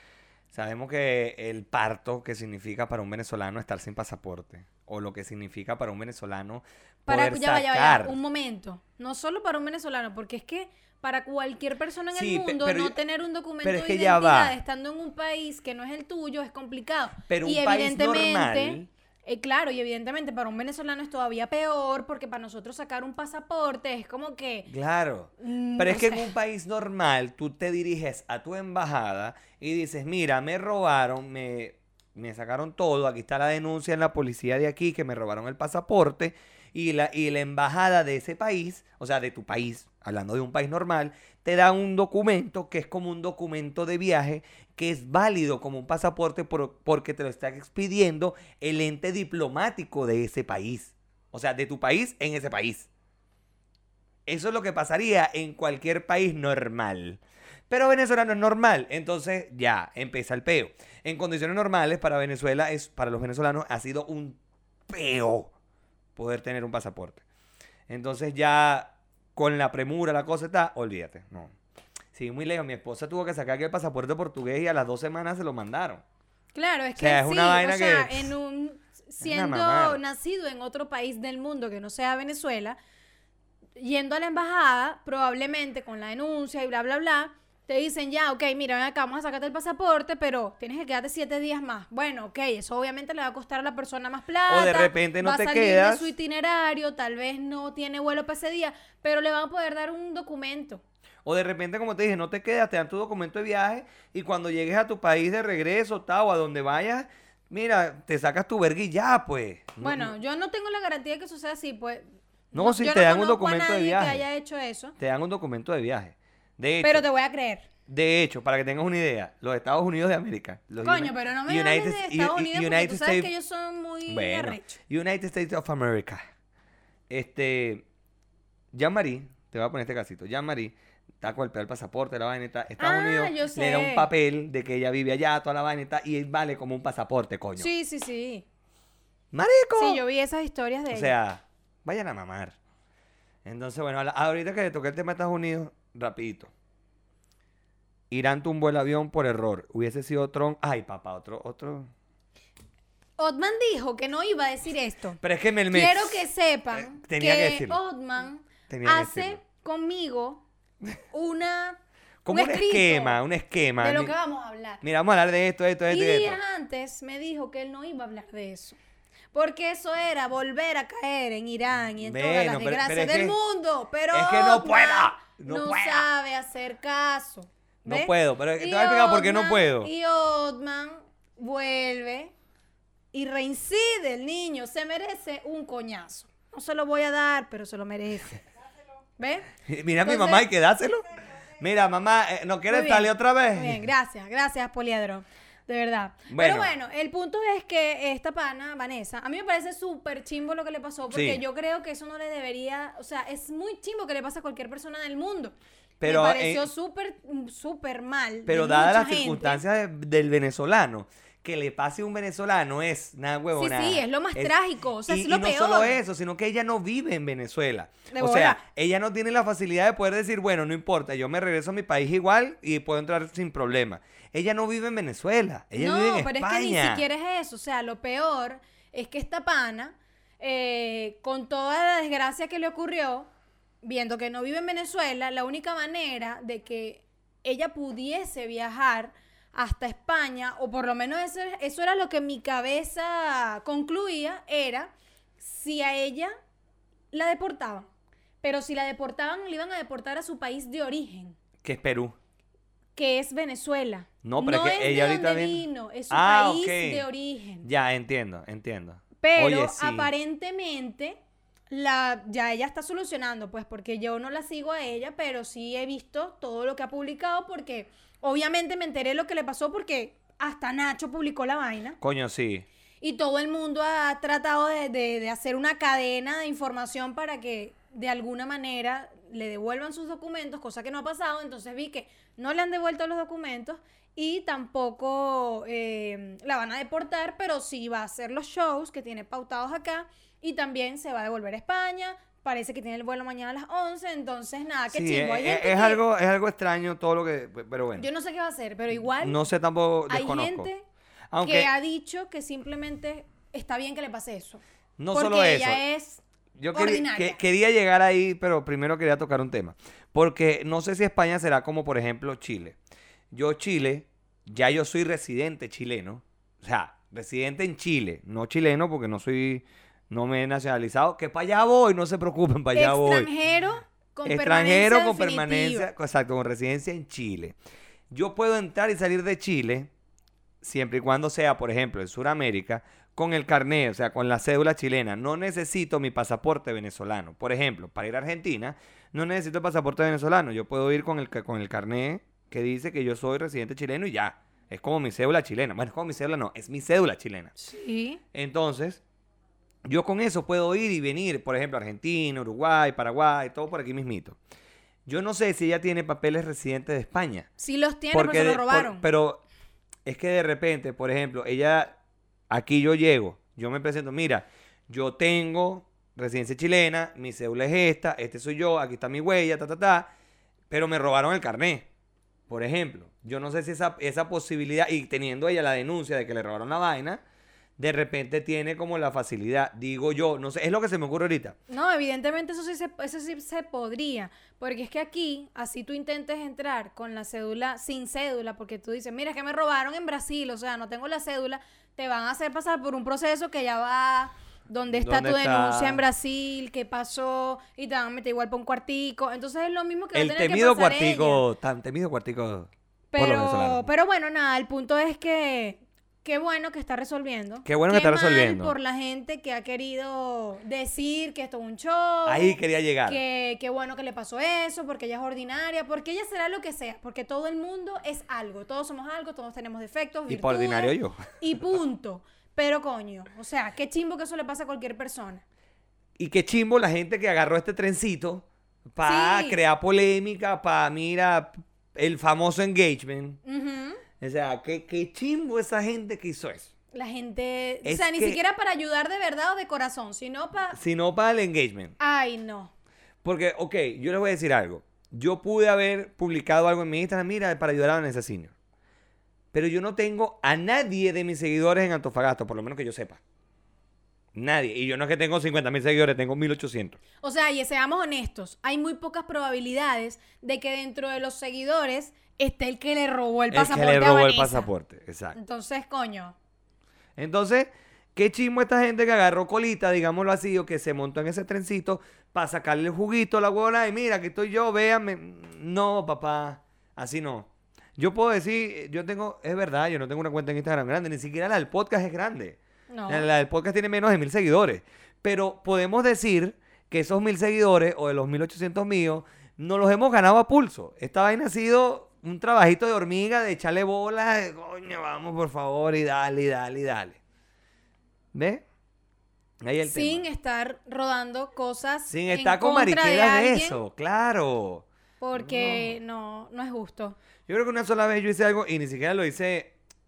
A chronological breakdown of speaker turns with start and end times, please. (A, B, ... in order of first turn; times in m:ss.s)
0:00.5-0:08.2 A
0:07.1-0:24.7 B
0:12.1-0:13.0 A
0:13.6-0:14.6 A
0:17.3-0:18.9 A
0:24.7-0:52.9 A
0:25.4-0:26.3 B
0:54.3-1:05.5 A
1:06.2-1:07.2 A
1:07.9-1:11.5 A
1:12.1-1:16.0 A
1:16.5-1:22.8 B
1:17.0-1:18.3 A
1:19.2-1:20.0 A
1:23.8-1:40.8 B
1:34.5-1:36.1 A
1:41.2-1:50.1 A
1:49.8-1:55.0 B
1:52.5-1:54.2 A
1:55.0-1:57.0 A
1:56.8-1:57.7 B
1:57.9-2:03.3 A
2:00.8-2:04.8 B
2:04.1-2:06.2 A
2:07.1-2:07.8 A
2:08.7-2:17.7 A
2:12.8-2:14.1 B
2:17.6-2:18.4 B
2:19.3-2:20.0 A
2:19.8-2:21.1 B
2:20.9-2:22.6 A
2:23.4-2:26.5 A
2:28.1-2:31.9 A
2:33.2-2:40.4 B
2:35.2-2:37.8 A
2:38.7-2:39.4 A
2:41.1-2:43.2 B
2:42.2-2:44.1 A
2:43.8-2:44.8 B
2:44.8-2:46.4 A
2:45.9-2:48.8 B
2:49.3-3:02.3 B
2:52.0-2:53.4 A
2:54.1-2:56.1 A
2:57.8-2:59.9 A
3:03.1-3:08.4 B
3:09.2-3:09.5 B
3:09.7-3:11.0 A
3:10.0-3:10.4 B
3:11.6-3:13.8 A
3:12.7-3:29.6 B
3:16.3-3:16.7 A
3:21.1-3:21.4 A
3:26.0-3:26.7 A
3:28.4-3:34.5 A
3:33.5-3:36.0 B
3:35.0-3:47.0 A
3:38.1-3:38.6 B
3:45.8-3:53.3 B
3:53.8-4:06.3 B
4:07.1-4:07.9 B
4:08.4-4:11.4 B
4:11.6-4:12.2 A
4:13.0-4:17.7 B
4:14.2-4:17.0 A
4:17.6-4:20.1 A
4:19.2-4:21.2 B
4:21.7-4:32.0 B
4:32.0-4:32.6 A
4:33.0-4:56.0 B
4:54.9-4:58.1 A
4:58.0-4:59.4 B
4:59.2-5:00.7 A
5:00.1-5:00.8 B
5:01.3-5:01.7 A
5:01.4-5:04.6 B
5:05.0-5:05.8 A
5:05.1-5:06.2 B
5:06.6-5:12.8 A
5:06.7-5:07.4 B
5:13.3-5:23.3 A
5:22.7-5:25.9 B
5:24.2-5:27.6 A
5:28.1-5:29.9 A
5:30.6-5:47.5 A
5:47.6-5:48.2 B
5:48.3-5:49.0 A
5:49.8-5:54.4 A
5:55.1-5:57.5 A
5:57.6-5:59.1 B
5:58.1-5:59.4 A
6:00.0-6:02.0 A
6:02.5-6:10.1 A
6:10.7-6:11.9 A
6:12.5-6:17.2 A
6:17.8-6:21.6 A
6:21.7-6:41.4 B
6:34.9-6:36.0 A
6:40.1-6:43.9 A
6:43.1-7:05.4 B
6:47.6-6:48.7 A
6:52.2-6:53.2 A
7:00.3-7:01.4 A
7:06.2-7:13.4 A
7:09.0-7:09.6 B
7:13.4-7:14.0 B
7:14.2-7:16.7 A
7:16.9-7:20.8 B
7:17.8-7:18.4 A
7:20.7-7:21.9 A
7:22.0-7:22.7 B
7:23.2-7:28.5 A
7:29.5-7:33.2 A
7:34.3-7:37.0 A
7:37.2-7:44.7 B
7:43.5-7:45.4 A
7:45.3-7:46.4 B
7:47.2-8:17.2 A
8:02.9-8:03.3 B
8:18.3-8:18.6 A
8:19.6-8:20.2 A
8:19.8-8:23.8 B
8:22.1-8:26.0 A
8:25.2-8:27.2 B
8:27.5-8:29.7 A